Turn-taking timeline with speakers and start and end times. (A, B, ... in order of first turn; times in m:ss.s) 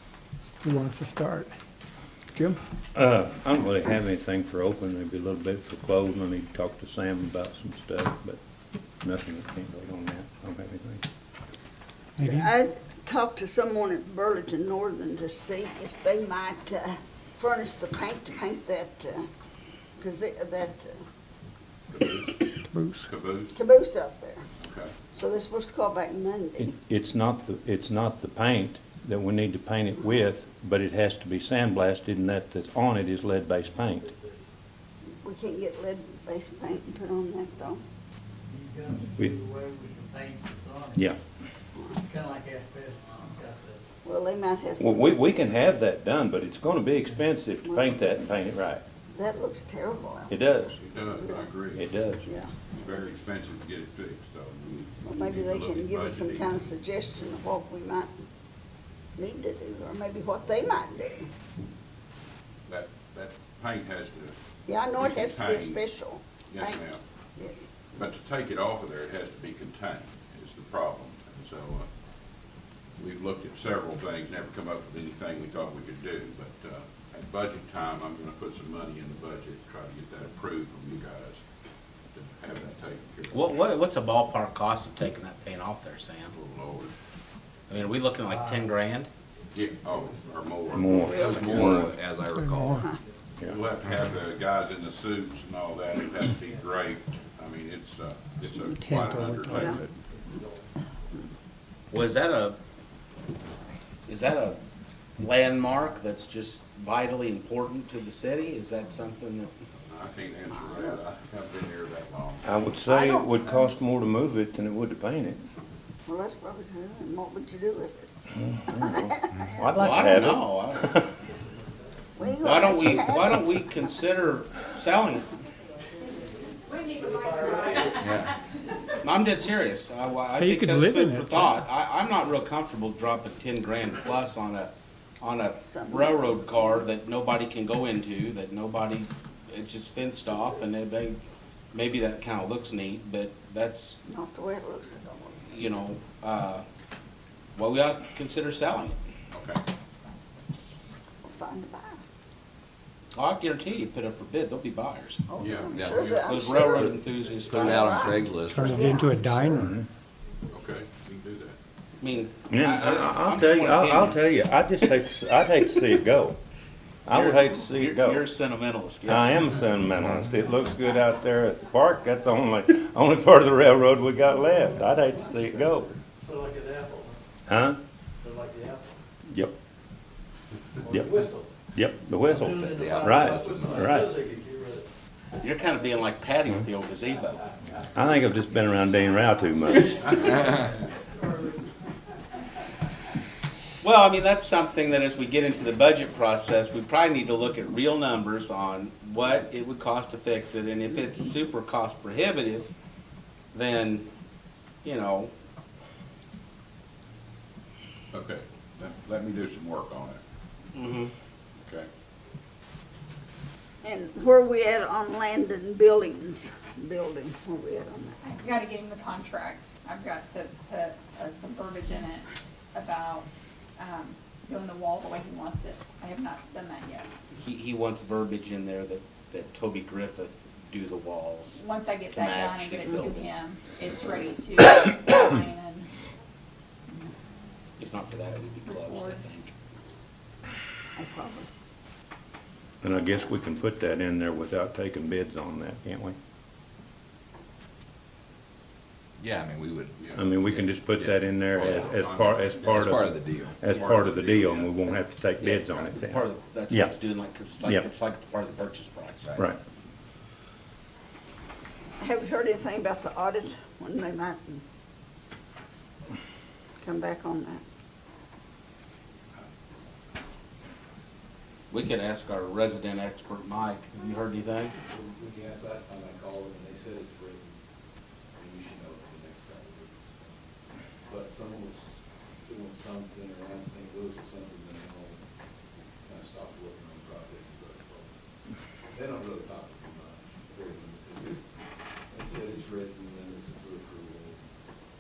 0:00.6-0:01.5 A
0:02.3-0:02.6 A
0:02.9-0:08.4 B
0:09.0-0:11.0 B
0:12.2-0:12.5 A
0:12.2-0:19.2 C
0:20.0-0:21.0 C
0:21.9-0:22.4 D
0:22.7-0:23.1 A
0:23.0-0:23.6 D
0:23.5-0:24.4 C
0:24.6-0:24.9 D
0:25.1-0:26.7 C
0:26.6-0:34.1 B
0:35.2-0:37.8 C
0:38.5-0:41.0 E
0:42.1-0:43.8 E
0:44.0-0:45.2 C
0:44.8-0:48.8 B
0:47.7-0:48.0 C
0:49.1-0:51.5 C
0:50.3-0:50.7 B
0:50.8-0:51.8 D
0:51.8-0:52.2 B
0:52.2-0:52.6 C
0:52.7-0:56.6 D
0:55.0-0:58.1 C
0:59.2-1:01.3 C
1:02.7-1:04.3 D
1:04.7-1:07.7 C
1:04.9-1:05.8 D
1:06.5-1:07.0 D
1:07.9-1:11.9 D
1:13.0-1:21.4 D
1:22.1-1:23.5 D
1:23.3-1:26.3 F
1:26.3-1:26.9 D
1:27.7-1:29.1 F
1:28.3-1:28.7 E
1:29.5-1:31.7 D
1:30.1-1:30.3 E
1:30.8-1:31.9 B
1:31.0-1:31.7 C
1:31.1-1:32.9 G
1:32.3-1:32.7 A
1:33.4-1:39.9 D
1:38.8-1:39.4 A
1:39.7-1:40.6 E
1:41.9-1:42.6 F
1:44.1-1:44.6 F
1:45.2-1:49.5 F
1:49.9-1:52.5 D
1:52.4-1:55.4 B
1:52.9-1:53.6 C
1:56.1-1:58.1 C
1:58.4-2:01.1 B
1:58.8-1:59.1 C
1:59.8-2:00.9 F
2:02.2-2:03.9 C
2:02.4-2:05.3 F
2:06.0-2:08.2 E
2:07.9-2:08.3 G
2:09.0-2:21.2 F
2:10.3-2:11.7 A
2:15.6-2:16.8 C
2:21.7-2:24.0 F
2:24.0-2:25.7 C
2:25.5-2:26.6 F
2:27.6-2:29.0 F
2:29.3-2:29.6 D
2:31.2-2:32.0 C
2:33.1-2:35.2 F
2:35.3-2:36.9 C
2:35.4-2:36.8 D
2:35.7-2:36.0 G
2:36.2-2:38.2 F
2:36.8-2:38.6 G
2:37.6-2:39.2 C
2:38.5-2:39.7 A
2:39.5-2:39.8 B
2:40.5-2:41.6 D
2:42.0-2:44.2 F
2:42.5-2:46.4 B
2:47.1-2:48.2 B
2:47.1-2:49.5 F
2:49.1-2:55.9 B
2:56.2-2:57.2 E
2:57.5-2:57.8 B
2:58.2-2:59.0 E
3:00.8-3:01.5 E
3:00.9-3:04.2 B
3:02.3-3:03.9 G
3:02.5-3:04.9 E
3:05.4-3:07.4 F
3:07.9-3:10.3 B
3:13.8-3:22.7 F
3:23.5-3:24.1 F
3:24.8-3:25.3 F
3:28.1-3:30.2 D
3:30.8-3:31.1 F
3:33.8-3:38.2 C
3:38.2-3:43.2 H
3:43.8-3:47.1 H
3:47.4-3:53.3 F
3:51.5-3:55.9 H
3:57.8-3:59.5 F
3:58.8-3:59.2 H
4:01.0-4:01.5 C
4:02.8-4:06.2 B
4:09.2-4:11.9 G
4:10.0-4:10.3 D
4:10.2-4:16.9 B
4:11.5-4:12.9 D
4:12.6-4:13.6 G
4:13.6-4:14.7 D
4:15.4-4:19.5 F
4:22.0-4:24.6 C
4:26.8-4:27.6 C
4:31.7-4:34.8 F
4:34.9-4:37.6 I
4:38.4-4:40.3 I
4:41.1-4:45.2 I
4:46.0-4:48.1 I
4:48.9-4:51.4 I
4:52.1-4:54.4 I